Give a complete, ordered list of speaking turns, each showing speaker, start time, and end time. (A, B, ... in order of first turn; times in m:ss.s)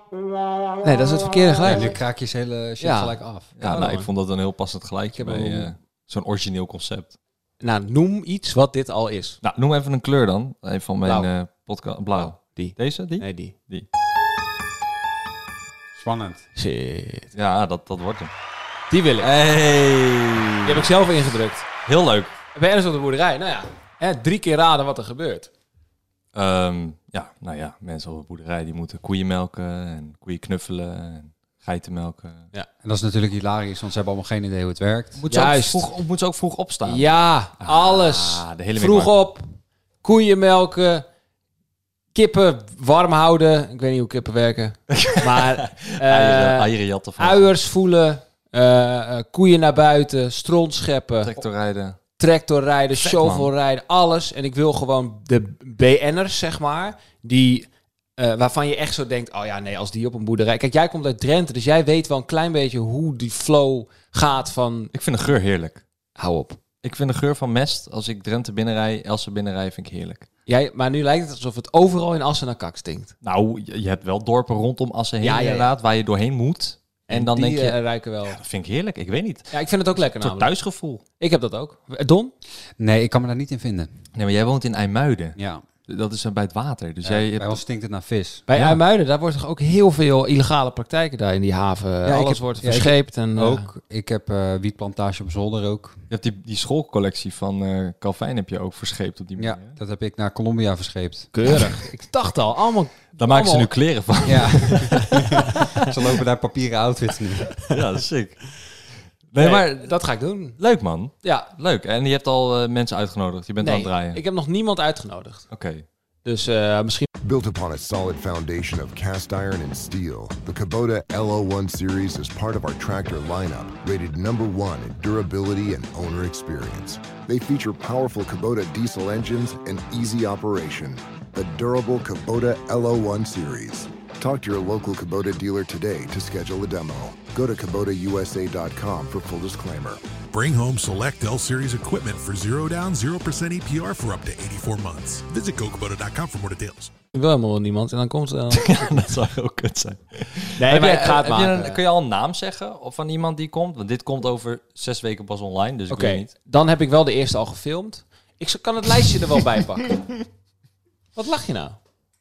0:00.8-0:02.0 A
0:01.6-0:03.5 B
0:02.8-0:04.1 A
0:03.6-0:07.2 C
0:05.1-0:05.7 A
0:07.6-0:09.4 A
0:09.4-0:13.8 C
0:12.2-0:13.5 A
0:15.9-0:16.4 B
0:16.6-0:17.3 A
0:17.3-0:18.3 C
0:18.9-0:19.3 A
0:19.2-0:20.9 C
0:20.6-0:21.6 A
0:21.8-0:22.4 C
0:22.5-0:25.5 A
0:26.3-0:32.4 C
0:32.8-0:35.2 B
0:35.2-0:39.2 C
0:35.3-0:35.9 A
0:36.8-0:39.5 A
0:40.0-0:41.0 A
0:42.1-0:51.3 A
0:44.9-0:47.5 C
0:51.2-0:52.0 C
0:52.2-1:04.9 A
0:53.0-0:53.5 C
1:04.9-1:05.8 C
1:06.2-1:06.6 A
1:06.8-1:10.2 C
1:10.5-1:13.1 A
1:13.2-1:19.5 C
1:15.2-1:15.7 A
1:17.1-1:18.4 A
1:19.5-1:20.5 A
1:20.1-1:21.0 C
1:21.2-1:22.3 A
1:22.8-1:24.0 B
1:24.1-1:27.6 C
1:25.4-1:25.6 B
1:27.3-1:28.8 B
1:28.5-1:33.7 A
1:32.0-1:36.0 B
1:36.1-1:39.8 C
1:39.4-1:41.3 B
1:41.3-1:43.7 A
1:43.2-1:45.6 C
1:44.2-1:47.5 B
1:47.7-1:48.6 C
1:49.3-1:49.9 C
1:49.4-1:50.6 A
1:50.6-1:54.2 C
1:53.6-1:55.5 A
1:55.5-1:55.8 C
1:56.2-1:57.1 A
1:57.2-2:20.0 D
2:20.3-2:26.9 E
2:27.1-2:28.7 A
2:28.5-2:36.3 C
2:30.6-2:31.8 A
2:35.9-2:40.0 A
2:41.2-2:41.8 A